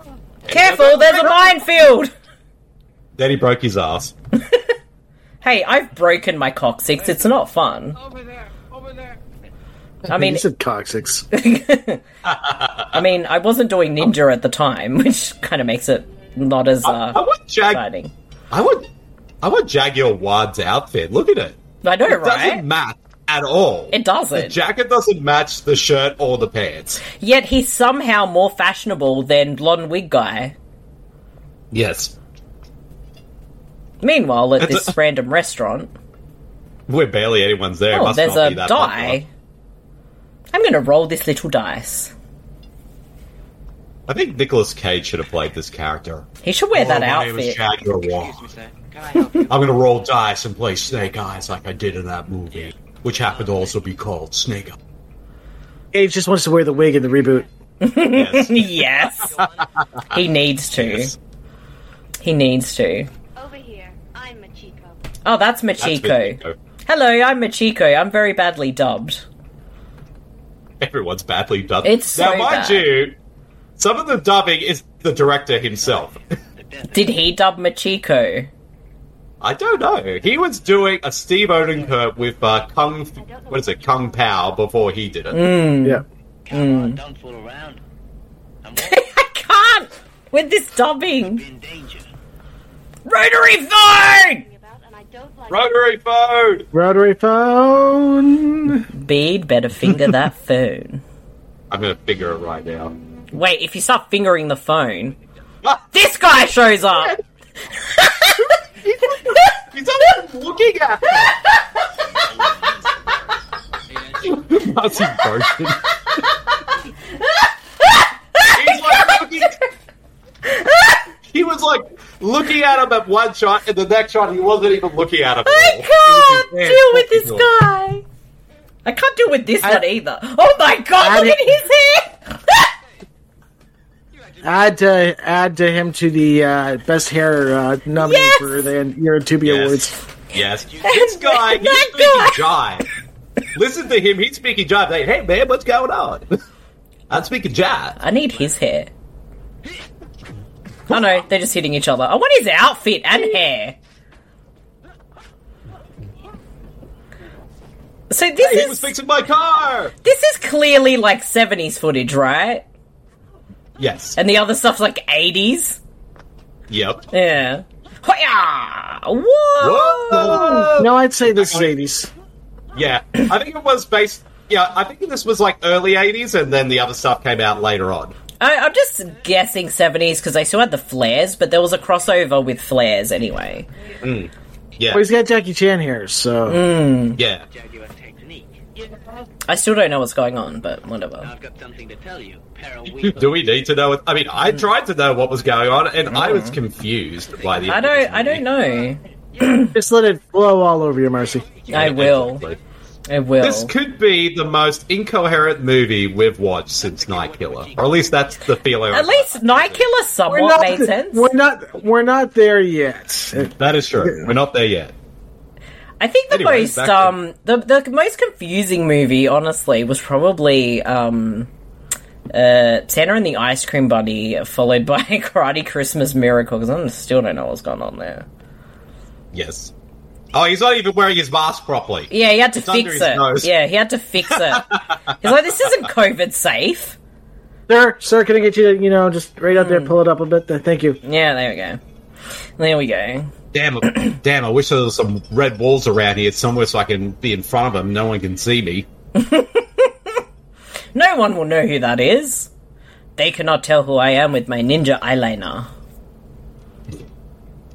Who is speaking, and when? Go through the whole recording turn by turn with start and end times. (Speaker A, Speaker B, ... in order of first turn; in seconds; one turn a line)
Speaker A: 0.5-1.6
Speaker B: 0.5-2.1
Speaker A: 3.2-4.1
Speaker B: 5.4-8.0
Speaker C: 8.1-9.2
Speaker D: 10.1-11.3
Speaker B: 10.1-10.4
Speaker B: 11.3-12.0
Speaker A: 12.2-13.0
Speaker B: 12.9-18.1
Speaker A: 16.8-17.8
Speaker A: 18.5-18.9
Speaker A: 19.4-27.0
Speaker B: 21.8-22.6
Speaker B: 23.9-24.6
Speaker B: 27.1-30.6
Speaker A: 31.7-32.1
Speaker B: 34.0-35.9
Speaker A: 34.6-35.0
Speaker A: 36.9-39.2
Speaker B: 37.9-39.3
Speaker B: 40.5-42.1
Speaker A: 44.1-48.5
Speaker B: 46.4-47.6
Speaker C: 47.9-49.8
Speaker A: 49.5-54.8
Speaker C: 50.9-51.2
Speaker C: 52.5-53.8
Speaker D: 55.9-57.5
Speaker C: 57.1-57.4
Speaker B: 57.8-59.3
Speaker A: 58.1-59.5
Speaker C: 59.0-59.7
Speaker B: 60.1-61.1
Speaker A: 60.8-61.2
Speaker B: 62.2-63.1
Speaker E: 63.4-65.0
Speaker B: 65.2-69.2
Speaker A: 65.8-66.6
Speaker A: 70.8-73.2
Speaker B: 71.8-72.9
Speaker A: 73.8-76.2
Speaker C: 75.8-77.3
Speaker B: 76.9-78.5
Speaker A: 79.4-85.4
Speaker E: 83.2-84.2
Speaker B: 85.3-87.0
Speaker C: 86.5-87.8
Speaker C: 88.6-89.1
Speaker B: 88.8-91.4
Speaker C: 91.2-92.1
Speaker B: 93.1-94.5
Speaker E: 94.0-96.0
Speaker A: 95.5-96.7
Speaker D: 96.7-98.8
Speaker B: 98.9-101.0
Speaker A: 101.7-102.9
Speaker B: 103.3-105.2
Speaker B: 105.9-107.2
Speaker A: 106.9-107.2
Speaker B: 107.8-108.5
Speaker A: 108.8-111.5
Speaker C: 112.0-113.3
Speaker C: 113.9-114.7
Speaker A: 114.2-115.9
Speaker B: 117.8-119.5
Speaker A: 118.5-119.6
Speaker B: 120.5-121.0
Speaker A: 121.3-127.5
Speaker B: 125.5-128.0
Speaker B: 128.8-132.7
Speaker D: 131.0-131.6
Speaker C: 134.1-135.3
Speaker D: 134.4-139.9
Speaker B: 138.0-138.5
Speaker A: 139.4-142.9
Speaker C: 140.5-141.0
Speaker B: 140.8-142.4
Speaker A: 143.5-146.3
Speaker A: 147.1-148.0
Speaker B: 148.0-148.9
Speaker A: 150.9-151.2
Speaker B: 150.9-153.8
Speaker B: 158.1-158.9
Speaker A: 158.4-159.9
Speaker B: 160.0-162.6
Speaker A: 163.8-164.2
Speaker B: 164.2-165.8
Speaker A: 166.7-167.0
Speaker B: 167.1-170.7
Speaker A: 169.6-171.7
Speaker D: 170.1-172.1
Speaker A: 172.8-178.2
Speaker B: 178.4-183.7
Speaker A: 184.0-185.1
Speaker D: 184.9-186.7
Speaker B: 186.5-187.2
Speaker A: 187.2-187.5
Speaker C: 187.4-189.0
Speaker B: 189.5-191.3
Speaker C: 191.2-193.6
Speaker A: 192.9-198.5
Speaker B: 196.1-196.6
Speaker C: 197.3-197.8
Speaker B: 197.7-199.7
Speaker D: 199.7-201.5
Speaker C: 201.4-202.6
Speaker A: 201.7-202.6
Speaker B: 201.7-202.4
Speaker B: 203.1-203.7
Speaker A: 203.4-209.9
Speaker C: 206.7-208.4
Speaker B: 208.9-211.3
Speaker D: 210.3-214.3
Speaker A: 213.4-214.9
Speaker B: 216.0-221.5
Speaker A: 216.3-217.2
Speaker B: 222.3-228.3
Speaker A: 229.3-229.7
Speaker A: 230.3-233.5
Speaker B: 232.1-237.0
Speaker A: 234.3-235.3
Speaker D: 237.7-241.0
Speaker B: 239.6-239.9
Speaker B: 241.0-241.8
Speaker B: 242.6-243.3
Speaker A: 243.5-248.9
Speaker B: 249.2-250.2
Speaker B: 250.9-252.5
Speaker B: 253.2-255.7